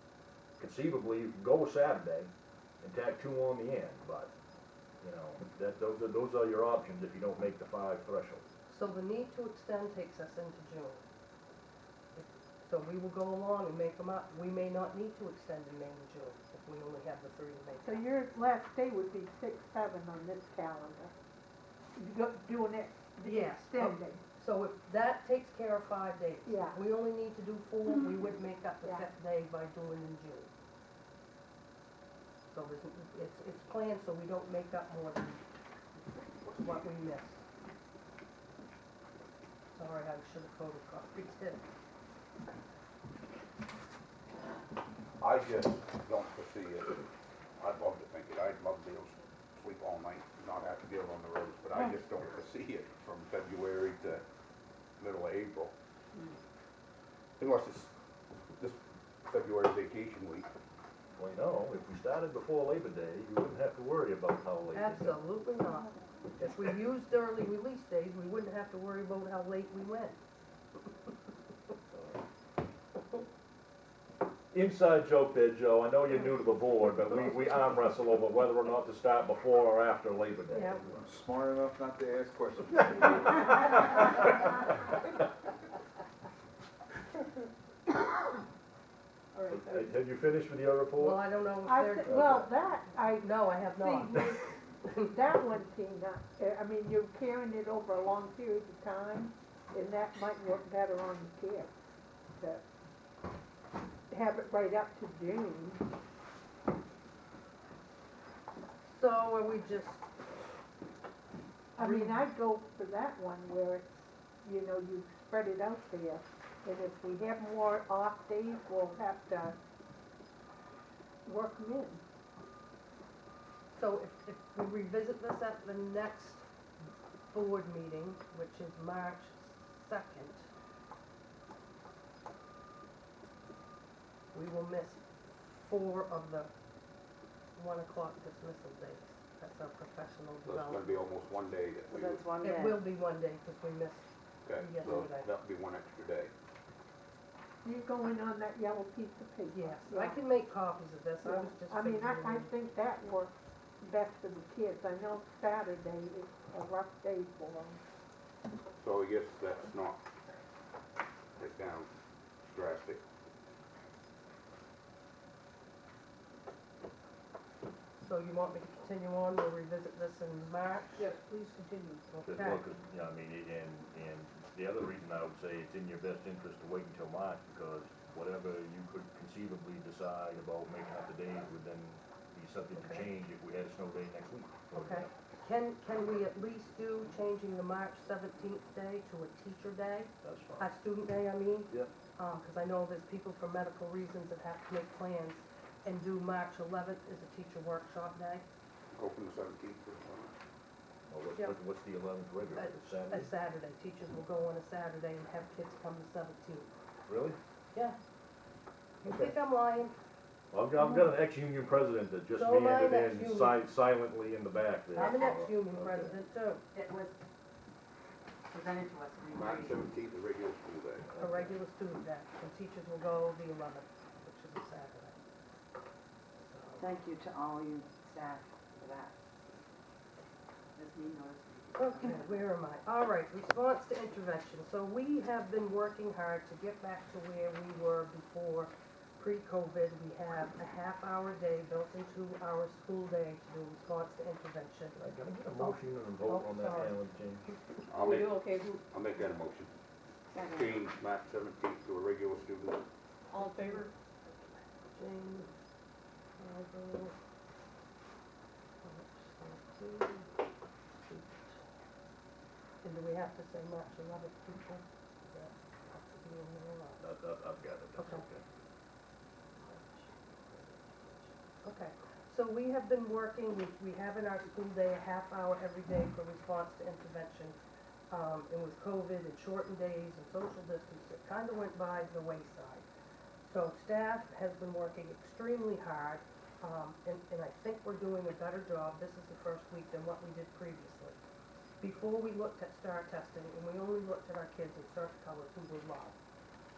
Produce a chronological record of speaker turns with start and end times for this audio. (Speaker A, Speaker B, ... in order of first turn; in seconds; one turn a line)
Speaker A: 0.6-4.3
Speaker A: 5.0-8.4
Speaker B: 8.7-11.0
Speaker B: 12.2-18.1
Speaker C: 17.8-21.1
Speaker C: 22.0-24.2
Speaker B: 23.2-30.5
Speaker C: 26.5-26.8
Speaker B: 32.5-35.4
Speaker B: 36.4-37.4
Speaker B: 39.7-41.6
Speaker D: 45.2-47.0
Speaker D: 47.6-54.2
Speaker D: 55.0-55.7
Speaker D: 57.4-57.9
Speaker D: 58.6-60.5
Speaker A: 61.1-65.2
Speaker B: 64.7-70.2
Speaker A: 71.9-72.2
Speaker A: 74.5-81.1
Speaker E: 80.9-83.8
Speaker A: 89.5-91.2
Speaker B: 91.0-92.4
Speaker C: 91.6-94.5
Speaker A: 92.0-92.5
Speaker B: 93.2-95.1
Speaker C: 95.1-101.7
Speaker C: 102.3-102.6
Speaker C: 104.1-105.9
Speaker B: 108.9-110.0
Speaker B: 111.8-112.2
Speaker C: 111.8-119.5
Speaker C: 121.2-122.0
Speaker B: 123.8-126.4
Speaker B: 127.3-130.5
Speaker B: 134.3-136.5
Speaker B: 137.6-141.0
Speaker D: 140.4-142.3
Speaker F: 141.9-142.9
Speaker B: 142.4-145.3
Speaker D: 144.5-146.3
Speaker C: 147.6-150.2
Speaker B: 149.5-152.5
Speaker C: 151.2-157.8
Speaker D: 158.8-160.0
Speaker D: 161.4-161.9
Speaker D: 162.4-163.0
Speaker B: 168.0-171.1
Speaker C: 171.0-172.0
Speaker B: 172.1-172.6
Speaker A: 172.2-185.1
Speaker B: 182.8-183.1
Speaker B: 184.7-198.4
Speaker A: 190.2-190.7
Speaker D: 198.9-200.3
Speaker A: 201.1-203.3
Speaker B: 202.5-206.7
Speaker A: 207.1-207.4
Speaker B: 209.0-209.9
Speaker A: 209.0-209.4
Speaker A: 210.5-216.2
Speaker B: 210.8-211.1
Speaker B: 212.3-213.6
Speaker B: 214.9-216.6
Speaker F: 215.0-215.4
Speaker F: 216.7-217.1
Speaker F: 218.5-219.9
Speaker D: 219.3-221.2
Speaker A: 221.1-221.6
Speaker B: 221.2-225.2
Speaker B: 226.4-226.9
Speaker F: 226.8-229.2
Speaker F: 230.8-232.4
Speaker B: 231.8-244.9
Speaker A: 244.9-247.5
Speaker B: 245.6-247.0
Speaker D: 247.9-249.7
Speaker C: 248.1-248.7
Speaker F: 250.3-250.9
Speaker D: 250.5-252.8
Speaker B: 253.3-253.9
Speaker C: 253.3-253.8
Speaker B: 254.9-255.5
Speaker B: 256.4-257.1
Speaker B: 258.8-260.3
Speaker B: 261.1-261.6
Speaker B: 262.8-267.1
Speaker A: 267.0-268.4
Speaker B: 267.9-268.2
Speaker B: 269.6-277.6
Speaker B: 278.1-282.9
Speaker B: 283.4-291.2
Speaker B: 291.8-296.2